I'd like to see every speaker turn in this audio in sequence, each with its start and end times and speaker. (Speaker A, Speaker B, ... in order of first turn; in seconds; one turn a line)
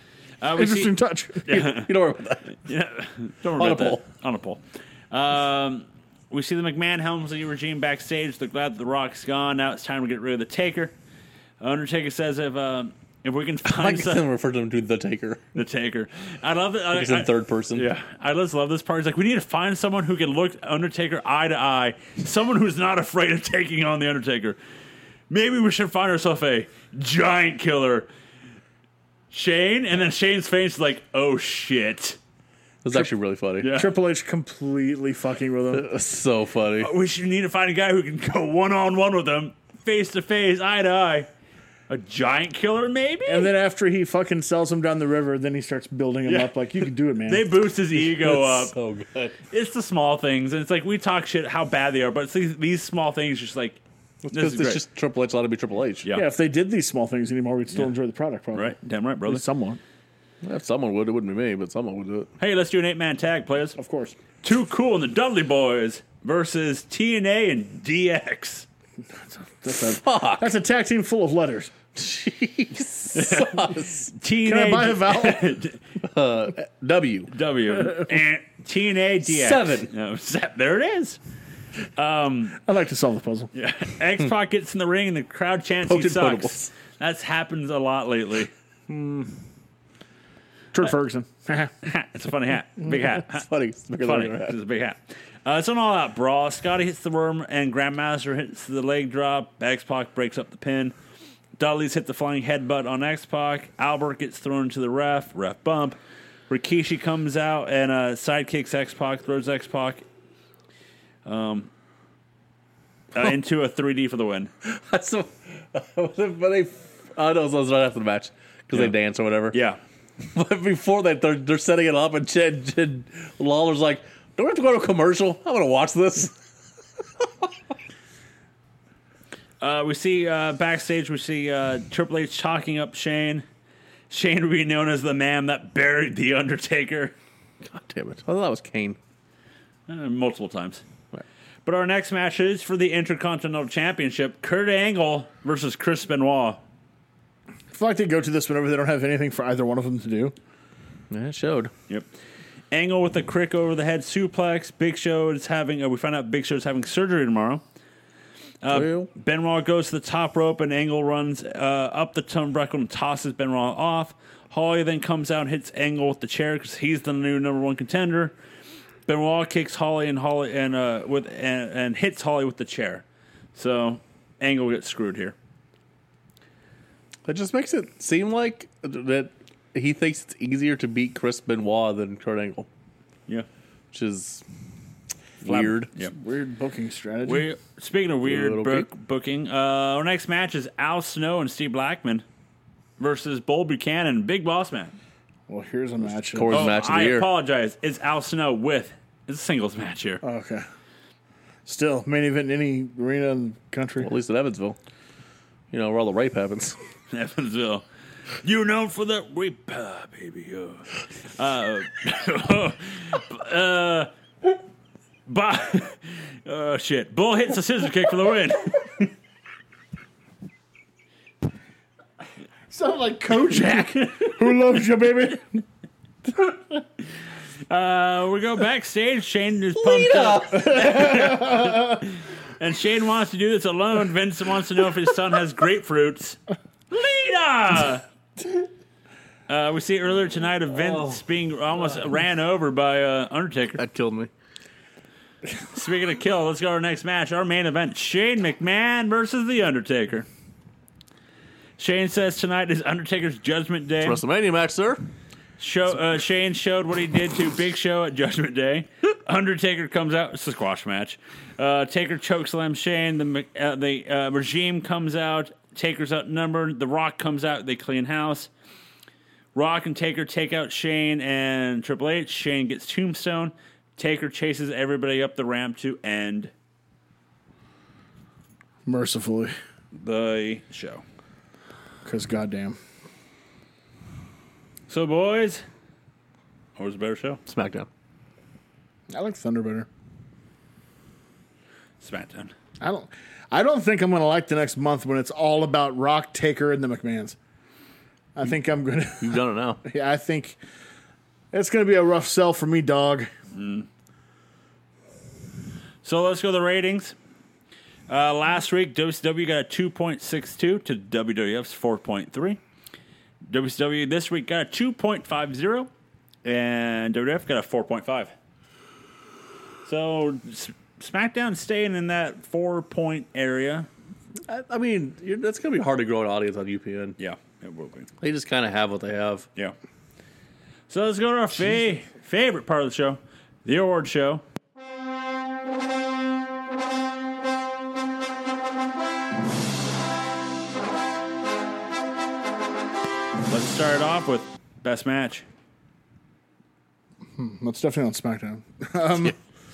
Speaker A: 0.4-0.9
Speaker B: 0.6-1.7
Speaker A: 1.5-1.9
Speaker C: 1.7-2.6
Speaker A: 2.6-10.9
Speaker C: 3.5-4.0
Speaker A: 11.6-14.2
Speaker C: 13.7-15.4
Speaker A: 15.6-24.6
Speaker C: 16.9-17.8
Speaker A: 25.3-28.1
Speaker A: 29.3-32.2
Speaker C: 32.8-33.7
Speaker A: 33.6-33.9
Speaker B: 33.7-35.9
Speaker C: 35.7-36.9
Speaker A: 36.8-41.3
Speaker A: 41.9-43.5
Speaker B: 43.3-47.5
Speaker A: 46.3-46.5
Speaker A: 47.2-48.8
Speaker C: 48.0-49.4
Speaker A: 49.5-53.8
Speaker C: 54.2-56.1
Speaker A: 54.4-54.8
Speaker B: 56.1-58.8
Speaker A: 58.5-59.4
Speaker B: 59.3-59.8
Speaker C: 60.4-62.3
Speaker A: 62.4-63.8
Speaker B: 63.8-64.2
Speaker A: 64.4-68.7
Speaker B: 69.1-71.8
Speaker C: 69.7-70.5
Speaker C: 72.0-74.1
Speaker A: 73.1-75.8
Speaker B: 74.4-75.5
Speaker C: 76.0-77.3
Speaker A: 77.3-81.2
Speaker C: 79.2-79.9
Speaker A: 82.0-82.6
Speaker B: 82.6-83.5
Speaker A: 83.5-88.5
Speaker C: 85.9-86.7
Speaker B: 88.9-89.3
Speaker B: 90.7-91.7
Speaker A: 91.8-93.5
Speaker C: 92.9-94.6
Speaker A: 94.0-101.0
Speaker A: 101.6-106.0
Speaker A: 106.5-110.0
Speaker A: 111.2-111.7
Speaker A: 113.2-114.5
Speaker C: 114.6-119.5
Speaker A: 119.5-119.8
Speaker C: 120.2-126.4
Speaker A: 129.6-133.4
Speaker A: 134.1-137.1
Speaker C: 137.7-139.0
Speaker A: 139.9-140.8
Speaker A: 141.7-146.6
Speaker B: 147.7-150.3
Speaker C: 151.1-151.7
Speaker A: 152.7-157.6
Speaker A: 158.6-168.3
Speaker C: 158.7-159.1
Speaker A: 169.1-173.0
Speaker A: 173.6-175.3
Speaker C: 177.3-182.7
Speaker C: 183.9-184.4
Speaker C: 185.4-185.9
Speaker A: 185.4-186.1
Speaker B: 186.1-187.5
Speaker A: 187.2-192.2
Speaker C: 188.3-188.9
Speaker A: 193.0-194.9
Speaker B: 195.5-196.7
Speaker C: 196.3-197.3
Speaker A: 196.5-200.2
Speaker B: 200.2-200.6
Speaker B: 201.7-204.1
Speaker C: 204.0-204.8
Speaker C: 205.7-206.8
Speaker A: 207.1-207.8
Speaker A: 208.4-214.1
Speaker A: 215.3-219.1
Speaker B: 222.7-225.6
Speaker A: 223.6-224.4
Speaker B: 226.3-226.6
Speaker A: 227.7-236.4
Speaker C: 229.8-231.2
Speaker B: 230.5-232.1
Speaker A: 236.9-238.0
Speaker A: 239.5-243.8
Speaker C: 240.7-241.2
Speaker C: 243.8-244.3
Speaker A: 245.7-250.3
Speaker A: 251.8-254.2
Speaker C: 254.0-255.0
Speaker A: 255.6-268.5
Speaker A: 269.6-276.5
Speaker B: 278.9-279.5
Speaker A: 279.9-281.0
Speaker B: 282.0-282.8
Speaker A: 284.9-285.6
Speaker A: 286.8-287.4
Speaker C: 287.5-287.9
Speaker B: 289.1-289.9
Speaker A: 292.0-292.5
Speaker B: 292.8-297.4
Speaker B: 298.4-300.6
Speaker C: 299.2-299.8
Speaker B: 301.5-303.3
Speaker A: 303.5-303.9
Speaker A: 306.0-307.2
Speaker A: 308.1-312.6
Speaker A: 313.5-315.9
Speaker A: 316.4-318.3
Speaker A: 319.9-323.9
Speaker C: 324.5-327.2
Speaker A: 327.2-328.1
Speaker C: 328.2-329.5
Speaker A: 330.9-334.4
Speaker A: 343.5-345.4
Speaker B: 347.4-349.4